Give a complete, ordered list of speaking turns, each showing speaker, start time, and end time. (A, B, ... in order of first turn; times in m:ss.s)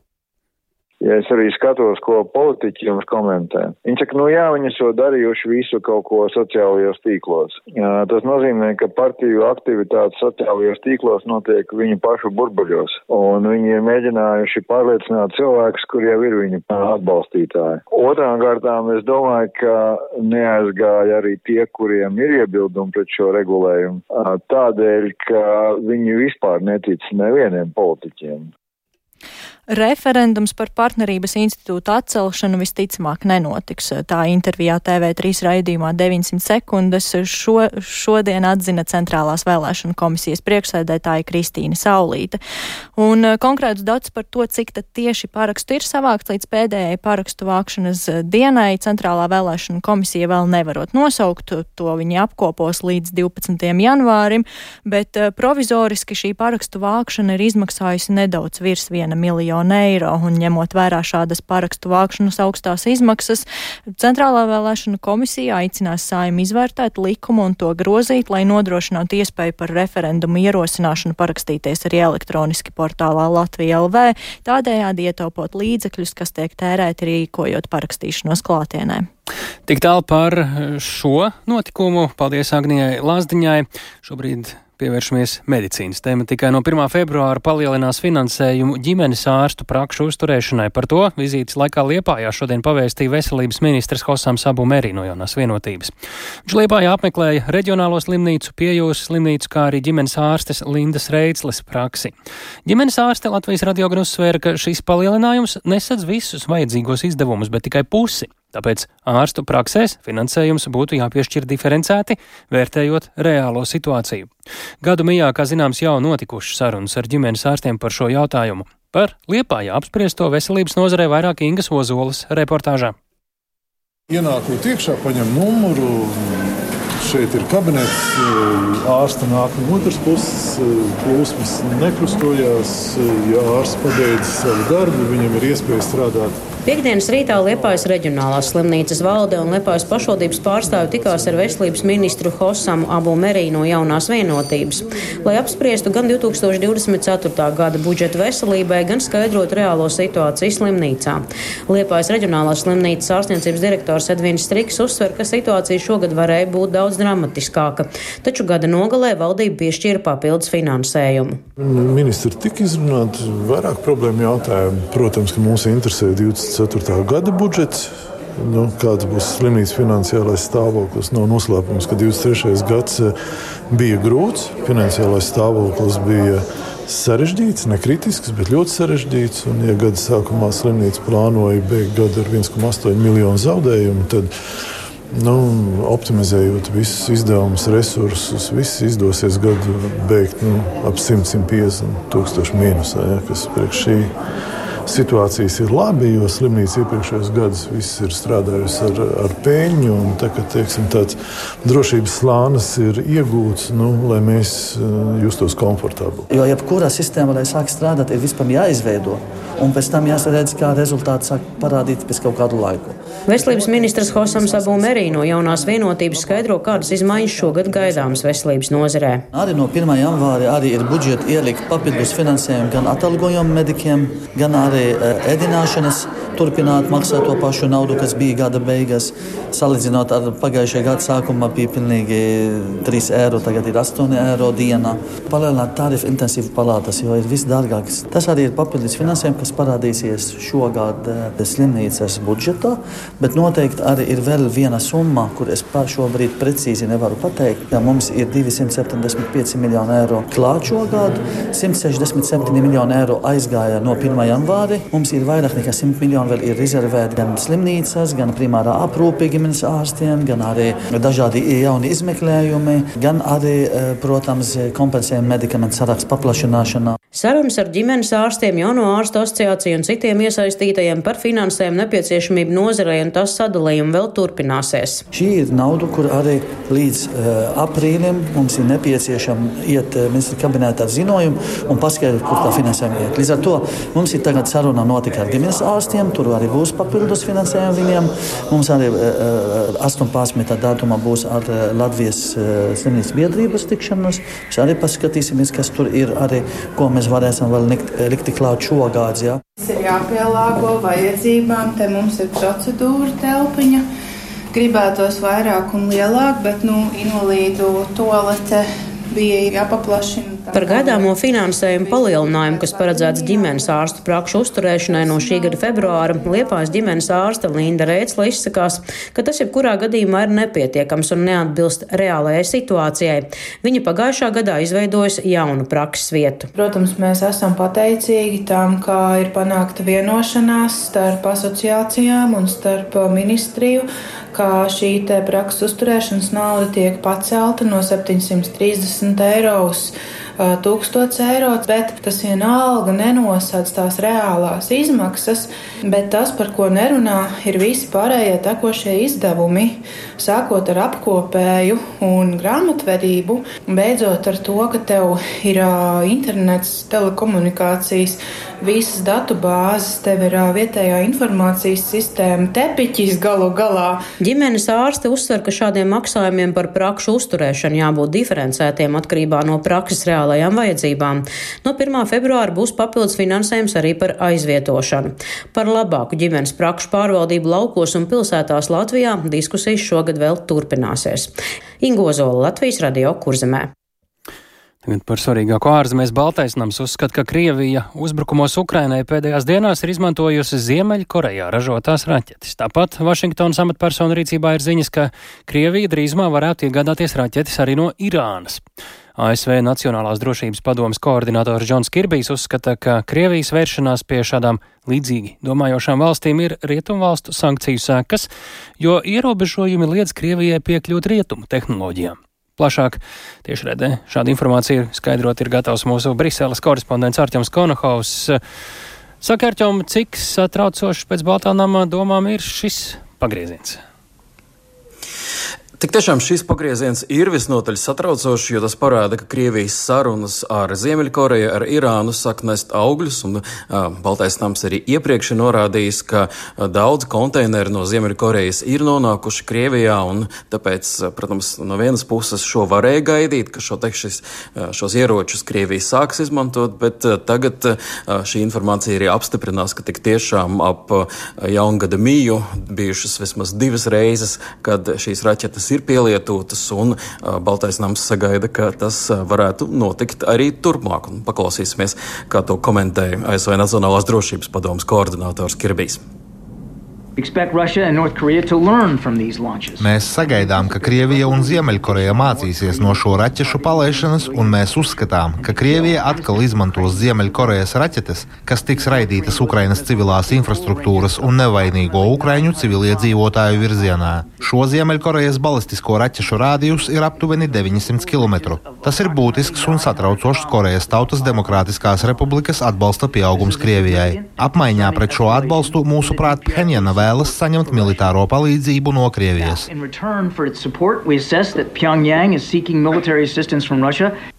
0:01.0-0:28.5 A
0:29.7-0:42.4 B
0:43.0-1:03.5 B
1:04.0-1:19.1 B
1:19.7-1:35.9 C
1:36.4-1:54.3 C
1:54.8-2:03.0 C
2:04.1-2:16.4 D
2:16.7-2:41.4 E
2:41.6-2:53.1 D
2:53.7-3:04.3 D
3:05.1-3:14.1 D
3:14.9-3:26.3 D
3:26.3-3:38.2 F
3:33.3-3:39.2 E
3:39.3-4:27.0 F
4:27.2-4:35.0 E
4:35.1-4:59.4 F
4:59.6-5:03.8 G
5:04.5-5:14.0 G
5:10.5-5:26.5 E
5:14.8-5:17.3 G
5:26.5-6:04.0 G
6:04.2-6:23.7 E
6:24.8-6:38.6 C
6:39.2-6:48.3 C
6:48.8-6:58.4 C
6:59.2-7:03.8 C
7:05.8-7:46.0 H
7:49.7-7:57.7 A
7:49.8-8:19.6 I
7:58.4-8:05.4 A
8:06.1-8:18.2 A
8:19.4-8:19.7 A